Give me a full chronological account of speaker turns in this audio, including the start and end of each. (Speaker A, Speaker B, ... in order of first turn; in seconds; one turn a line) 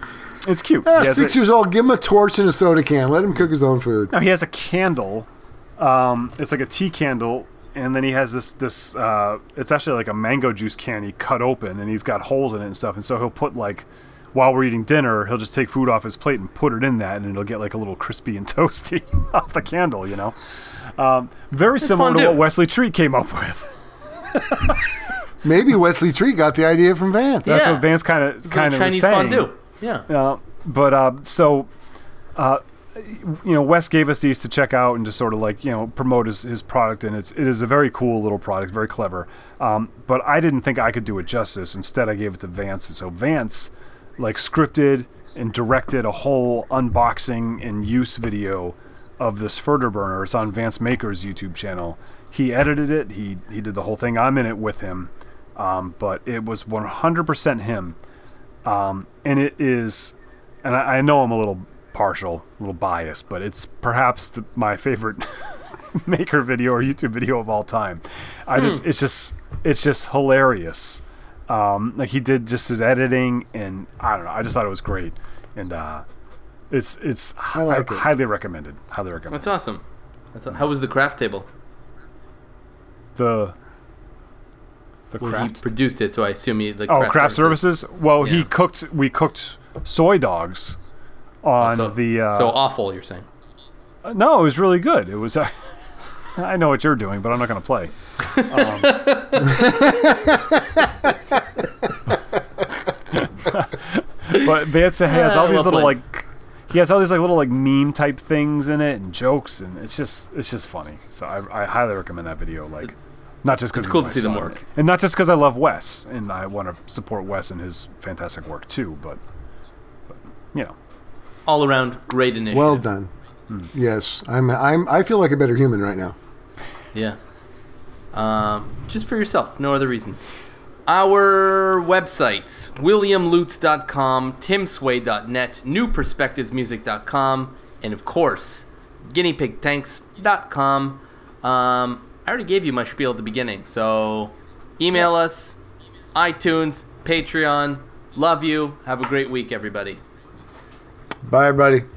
Speaker A: 0.4-1.4
Speaker B: 0.9-4.1
Speaker A: 4.1-20.4
Speaker A: 20.9-24.9
Speaker C: 21.8-22.4
Speaker B: 25.4-27.6
Speaker A: 27.4-29.5
Speaker C: 27.5-27.9
Speaker C: 28.4-30.1
Speaker A: 30.1-31.7
Speaker A: 32.4-58.0
Speaker A: 58.6-76.0
Speaker A: 76.7-79.6
Speaker B: 77.5-78.1
Speaker C: 79.3-79.8
Speaker C: 80.3-81.5
Speaker A: 83.2-83.5
Speaker A: 85.1-85.6
Speaker C: 85.2-87.6
Speaker A: 86.9-90.8
Speaker C: 88.2-88.5
Speaker A: 91.4-92.6
Speaker C: 91.6-93.3
Speaker A: 94.0-99.1
Speaker C: 98.2-100.3
Speaker A: 103.1-119.2
Speaker C: 105.0-106.0
Speaker C: 113.8-114.6
Speaker A: 120.1-120.8
Speaker C: 121.5-122.8
Speaker B: 122.5-123.1
Speaker B: 123.7-126.2
Speaker C: 128.1-130.2
Speaker C: 130.9-145.6
Speaker C: 146.2-150.0
Speaker B: 151.2-151.9